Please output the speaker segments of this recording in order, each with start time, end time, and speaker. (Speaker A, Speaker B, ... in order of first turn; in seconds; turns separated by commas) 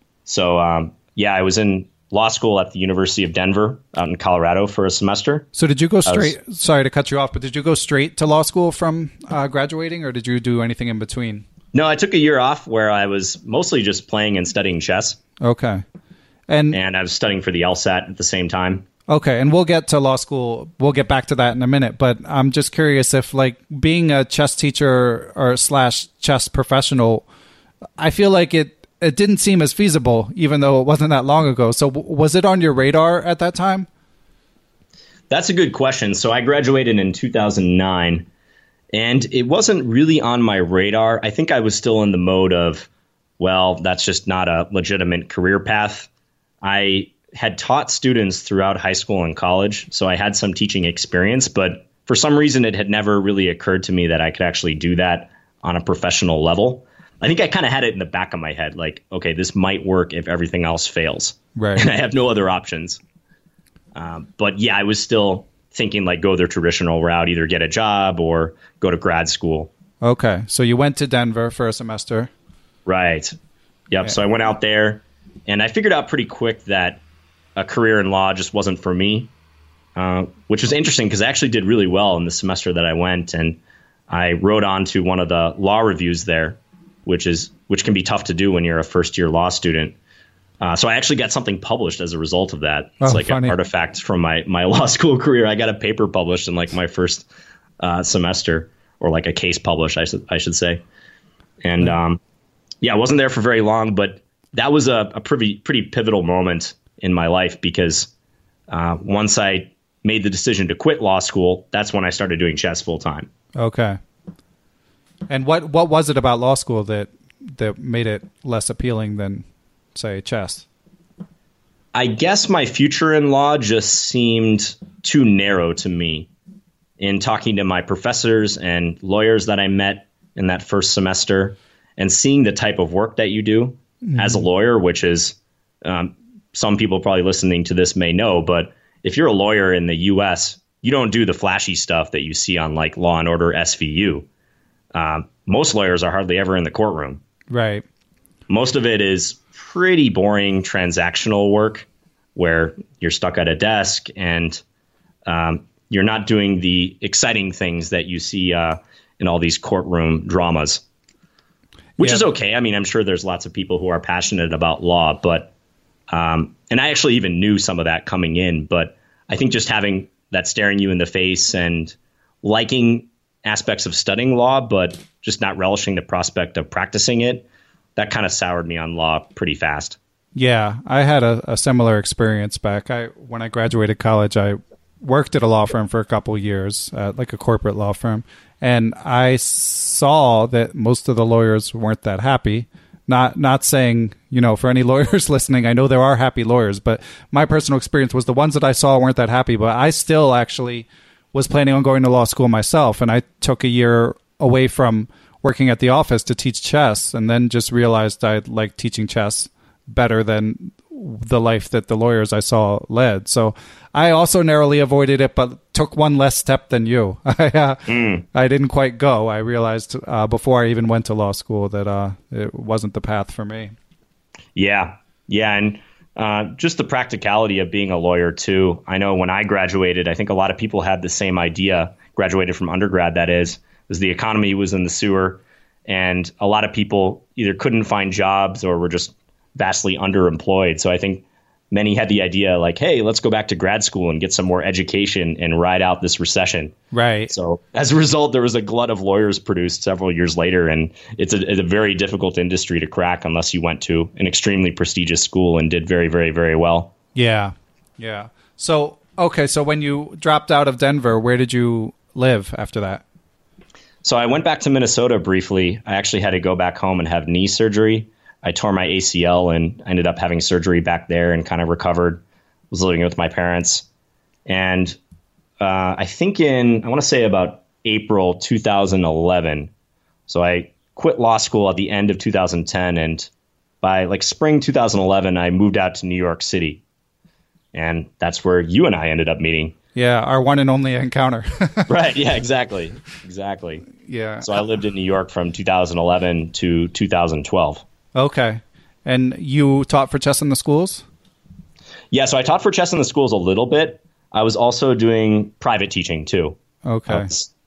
Speaker A: 0.2-5.5, Speaker B: 5.5-11.4, Speaker A: 6.0-6.3, Speaker A: 11.7-15.2, Speaker B: 15.4-15.8, Speaker B: 16.5-16.8, Speaker A: 16.7-18.9, Speaker B: 19.1-27.3, Speaker B: 28.0-33.9, Speaker A: 35.3-38.3, Speaker A: 38.9-46.1, Speaker A: 46.6-63.0, Speaker B: 61.5-61.9, Speaker A: 63.9-69.7, Speaker B: 70.0-72.3, Speaker A: 72.8-73.3, Speaker A: 73.9-77.0, Speaker A: 77.5-79.3, Speaker A: 79.9-90.0, Speaker A: 90.6-97.3, Speaker B: 93.0-93.6, Speaker A: 97.8-100.8, Speaker A: 101.6-102.2, Speaker A: 102.8-108.1, Speaker A: 108.7-113.3, Speaker B: 113.5-114.0, Speaker B: 115.3-120.7, Speaker A: 121.9-126.3, Speaker A: 127.0-144.3, Speaker B: 134.0-134.3, Speaker A: 144.9-147.2, Speaker B: 147.5-147.8, Speaker A: 148.5-154.6, Speaker A: 155.2-160.8, Speaker A: 162.0-165.5, Speaker A: 166.1-180.0, Speaker B: 180.3-223.7, Speaker A: 217.9-218.2, Speaker A: 224.5-246.7, Speaker B: 246.9-247.3, Speaker A: 247.3-256.9, Speaker B: 257.1-263.0, Speaker A: 264.0-273.9, Speaker A: 274.4-275.0, Speaker A: 275.6-279.7, Speaker A: 280.3-283.3, Speaker A: 283.8-286.8, Speaker A: 287.7-289.8, Speaker B: 289.9-291.9, Speaker A: 291.9-293.9, Speaker B: 294.0-294.5, Speaker A: 294.4-297.8, Speaker B: 298.1-301.0, Speaker A: 302.1-306.6, Speaker B: 306.8-307.3, Speaker A: 307.1-307.5